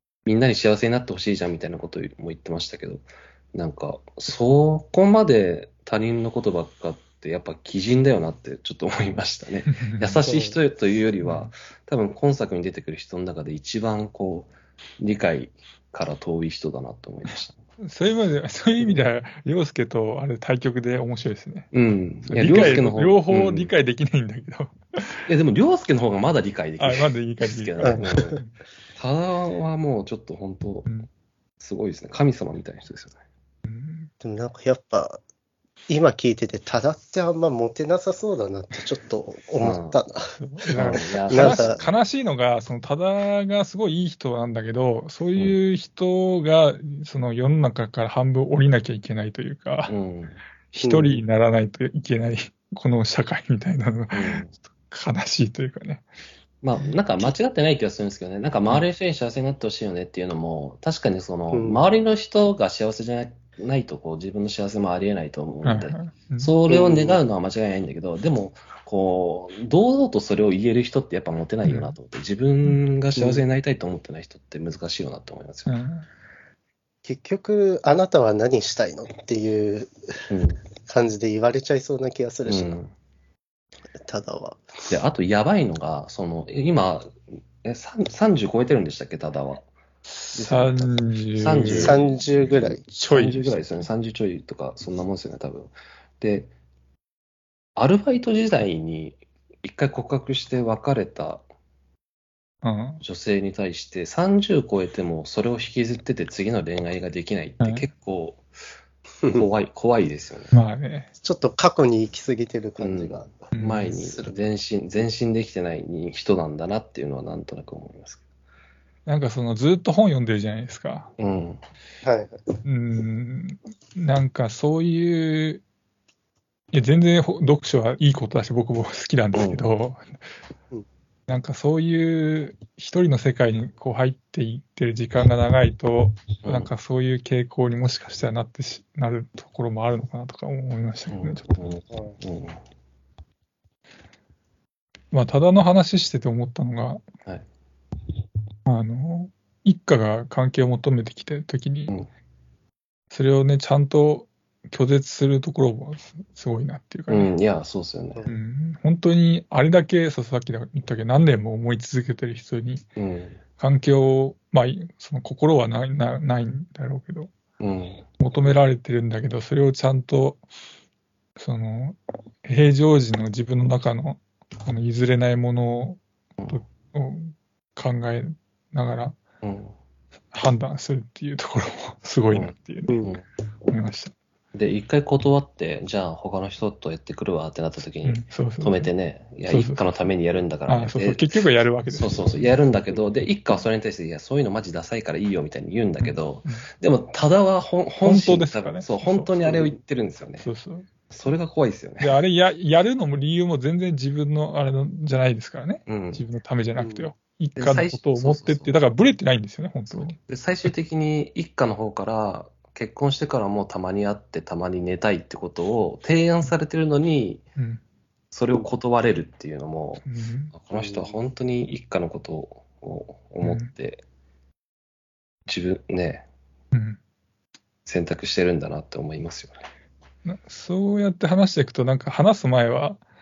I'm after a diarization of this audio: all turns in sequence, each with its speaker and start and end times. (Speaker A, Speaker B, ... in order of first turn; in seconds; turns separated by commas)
Speaker A: 0.2-17.6, Speaker B: 9.7-10.2, Speaker C: 10.2-10.6, Speaker B: 11.2-11.5, Speaker B: 17.8-21.7, Speaker A: 21.7-23.7, Speaker B: 22.2-25.2, Speaker A: 25.3-28.4, Speaker B: 26.8-28.5, Speaker C: 27.8-28.4, Speaker A: 28.9-30.9, Speaker A: 31.6-33.2, Speaker B: 33.6-34.1, Speaker C: 34.2-35.2, Speaker C: 35.9-41.8, Speaker A: 39.6-40.0, Speaker B: 40.4-49.9, Speaker A: 40.8-41.9, Speaker A: 49.9-50.4, Speaker B: 50.7-56.0, Speaker C: 50.8-51.2, Speaker A: 54.1-54.5, Speaker A: 56.6-75.7, Speaker C: 61.5-61.8, Speaker B: 65.6-66.5, Speaker C: 66.7-67.2, Speaker B: 71.7-71.9, Speaker C: 73.1-73.4, Speaker B: 75.7-76.1, Speaker C: 77.0-80.3, Speaker A: 80.3-80.6, Speaker C: 80.9-82.8, Speaker A: 82.5-82.9, Speaker C: 84.0-84.7, Speaker A: 84.9-89.7, Speaker B: 90.1-93.8, Speaker A: 90.3-96.5, Speaker C: 91.8-92.8, Speaker A: 97.8-101.4, Speaker B: 102.6-103.0, Speaker A: 103.0-108.4, Speaker B: 107.6-107.9, Speaker A: 109.3-110.5, Speaker B: 110.5-111.1, Speaker C: 111.2-113.3, Speaker A: 112.8-118.2, Speaker B: 113.5-114.0, Speaker C: 114.0-114.3, Speaker B: 119.0-121.1, Speaker A: 121.2-121.6, Speaker C: 122.0-122.4, Speaker B: 122.6-125.6, Speaker B: 126.7-130.1, Speaker A: 129.3-129.7, Speaker B: 131.3-141.8, Speaker A: 136.4-136.7, Speaker A: 141.1-142.6, Speaker B: 145.1-147.0, Speaker B: 148.7-151.9, Speaker B: 153.1-157.3, Speaker A: 157.1-158.2, Speaker B: 158.3-162.8, Speaker A: 163.0-163.4, Speaker B: 163.6-167.3, Speaker A: 167.6-168.0, Speaker B: 168.2-170.4, Speaker B: 171.4-179.2, Speaker A: 179.4-179.7, Speaker B: 180.3-183.1, Speaker A: 182.3-183.2, Speaker B: 183.7-184.1, Speaker A: 184.5-191.2, Speaker B: 188.0-188.9, Speaker B: 189.5-189.8, Speaker B: 190.7-192.5, Speaker A: 191.9-200.5, Speaker B: 196.0-196.7, Speaker B: 198.0-199.3, Speaker B: 200.4-200.9, Speaker A: 201.1-202.1, Speaker B: 202.0-210.2, Speaker A: 205.9-206.2, Speaker C: 206.8-207.1, Speaker A: 207.6-208.7, Speaker A: 210.1-217.4, Speaker A: 218.3-224.0, Speaker B: 220.0-220.5, Speaker C: 220.7-221.1, Speaker B: 223.4-223.7, Speaker A: 225.5-226.2, Speaker B: 226.7-227.0, Speaker A: 227.8-229.6, Speaker B: 230.2-233.0